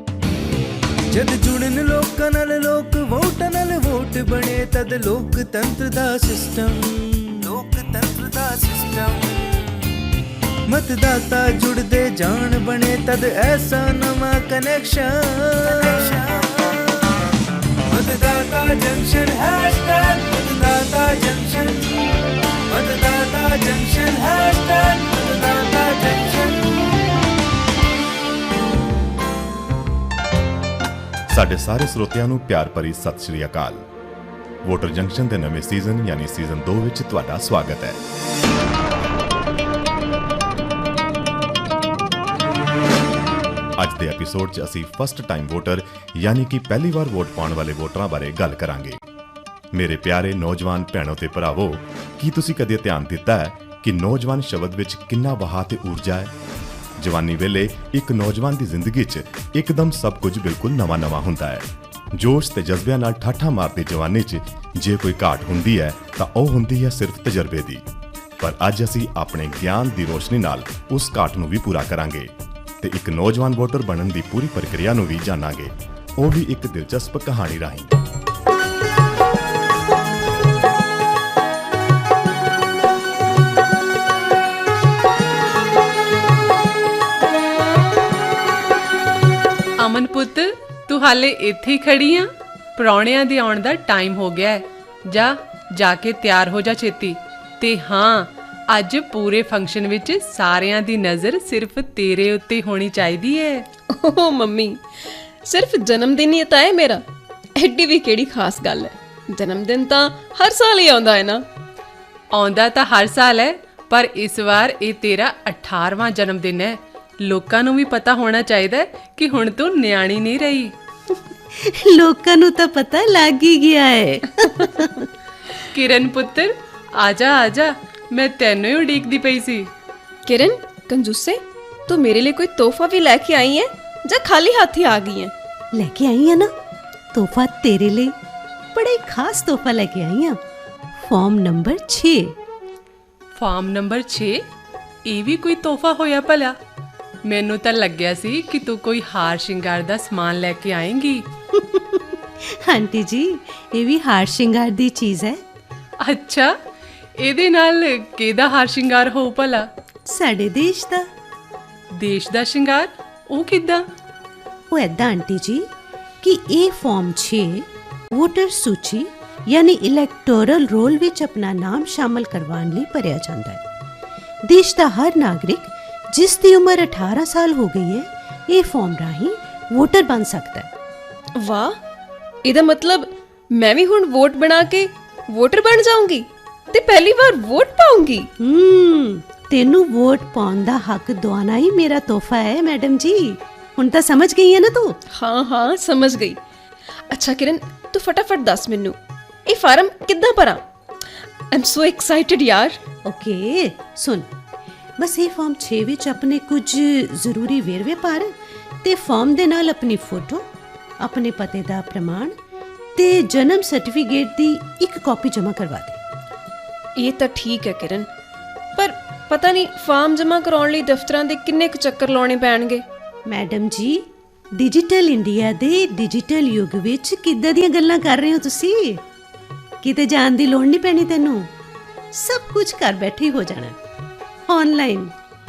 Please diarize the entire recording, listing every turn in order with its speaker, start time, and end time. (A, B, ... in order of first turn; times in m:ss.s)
0:01.1-0:10.0 A
0:10.7-0:16.9 A
0:17.9-0:21.9 A
0:22.7-0:26.7 A
0:31.3-0:33.8 B
0:34.6-0:38.0 B
0:43.8-0:49.0 B
0:49.8-0:56.3 B
0:57.0-1:07.8 B
1:08.4-1:12.3 B
1:12.8-1:18.0 B
1:29.8-1:43.6 C
1:43.9-1:47.0 D
1:47.6-1:51.4 D
1:52.3-2:00.7 C
2:01.6-2:05.1 E
2:05.7-2:09.7 C
2:10.3-2:15.3 D
2:15.8-2:16.5 E
2:17.1-2:18.1 E
2:18.8-2:20.4 E
2:21.0-2:22.3 E
2:23.3-2:24.4 C
2:25.1-2:26.6 C
2:27.3-2:31.2 C
2:31.5-2:35.4 E
2:36.0-2:36.5 C
2:37.2-2:39.7 C
2:40.1-2:41.1 E
2:42.0-2:43.8 C
2:44.7-2:45.6 E
2:46.2-2:53.6 E
2:54.4-3:00.7 E
3:01.4-3:01.8 D
3:02.4-3:08.3 D
3:08.4-3:14.9 E
3:15.2-3:16.4 D
3:17.1-3:19.0 D
3:19.5-3:20.6 D
3:21.5-3:22.8 D
3:23.1-3:24.3 E
3:25.0-3:28.3 E
3:28.8-3:30.4 E
3:31.0-3:32.3 E
3:33.0-3:36.0 E
3:37.0-3:38.1 D
3:38.8-3:42.8 D
3:43.3-3:44.0 E
3:44.6-3:49.0 E
3:49.8-3:51.5 E
3:52.2-3:53.8 E
3:54.5-3:55.1 E